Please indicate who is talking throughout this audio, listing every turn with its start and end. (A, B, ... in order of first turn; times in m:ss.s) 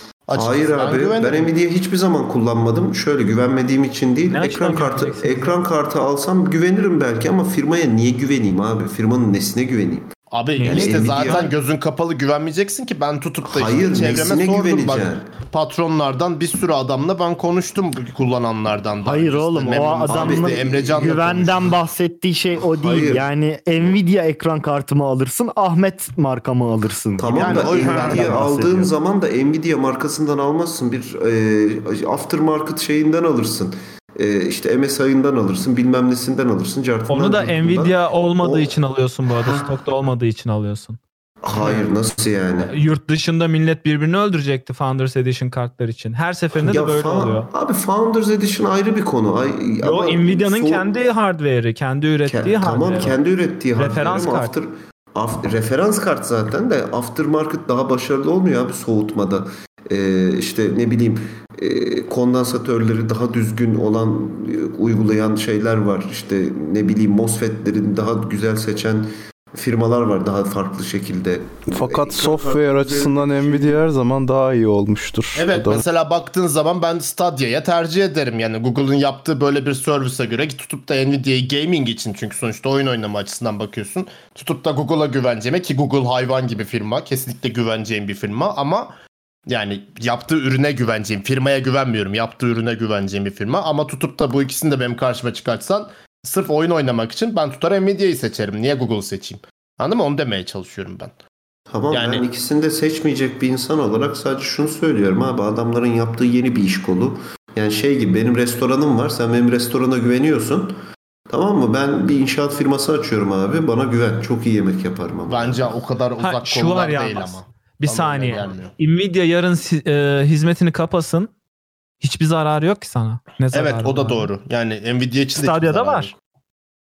0:00.3-0:01.5 A
0:00.3-0:10.1 B
0:04.3-0:05.6 C
0:10.3-0:21.7 A
0:10.6-0:11.5 C
0:10.6-0:11.5 B
0:13.4-0:15.3 B
0:19.0-0:28.9 D
0:20.1-0:21.2 B
0:22.7-0:23.3 B
0:27.2-0:38.8 B
0:27.4-0:28.4 A
0:37.1-0:41.0 C
0:39.3-0:39.7 B
0:41.4-0:42.7 B
0:42.7-0:47.5 C
0:46.6-0:50.9 B
0:49.8-0:53.2 C
0:52.2-1:13.8 B
0:53.8-0:54.6 C
1:11.7-1:15.8 E
1:15.4-1:28.9 A
1:29.5-1:41.2 A
1:41.7-1:50.7 B
1:41.9-1:42.3 A
1:51.3-1:55.8 B
1:55.3-1:58.7 A
1:56.2-2:01.3 C
2:02.0-2:04.3 C
2:03.5-2:06.2 A
2:05.4-2:06.1 C